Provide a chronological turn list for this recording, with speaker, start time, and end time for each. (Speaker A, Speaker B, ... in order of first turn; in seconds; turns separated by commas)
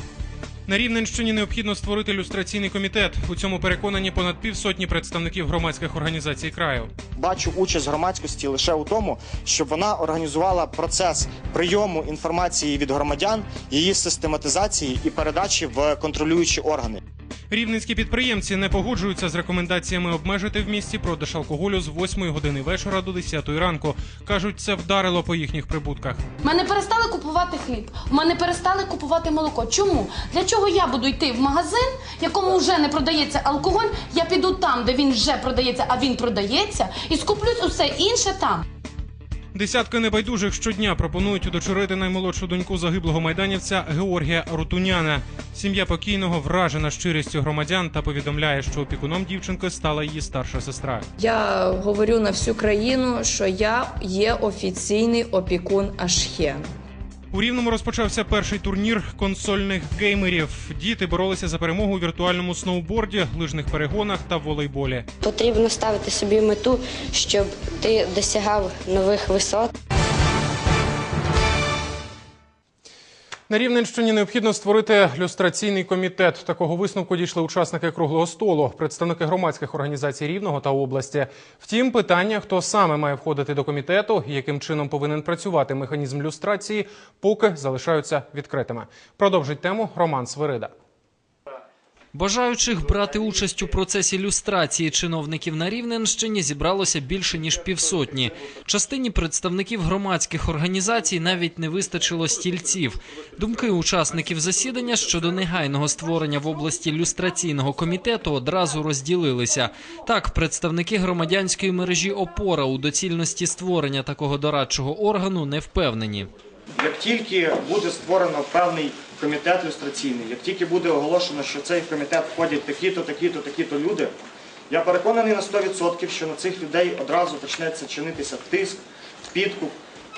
Speaker A: 0.7-6.9, Speaker B: 7.2-17.0, Speaker A: 17.5-26.3, Speaker C: 26.4-38.6, Speaker A: 39.5-51.1, Speaker D: 51.2-56.7, Speaker A: 57.3-65.1, Speaker E: 65.2-69.7, Speaker A: 73.5-90.7, Speaker F: 92.1-116.3, Speaker B: 116.8-124.1, Speaker B: 124.7-129.8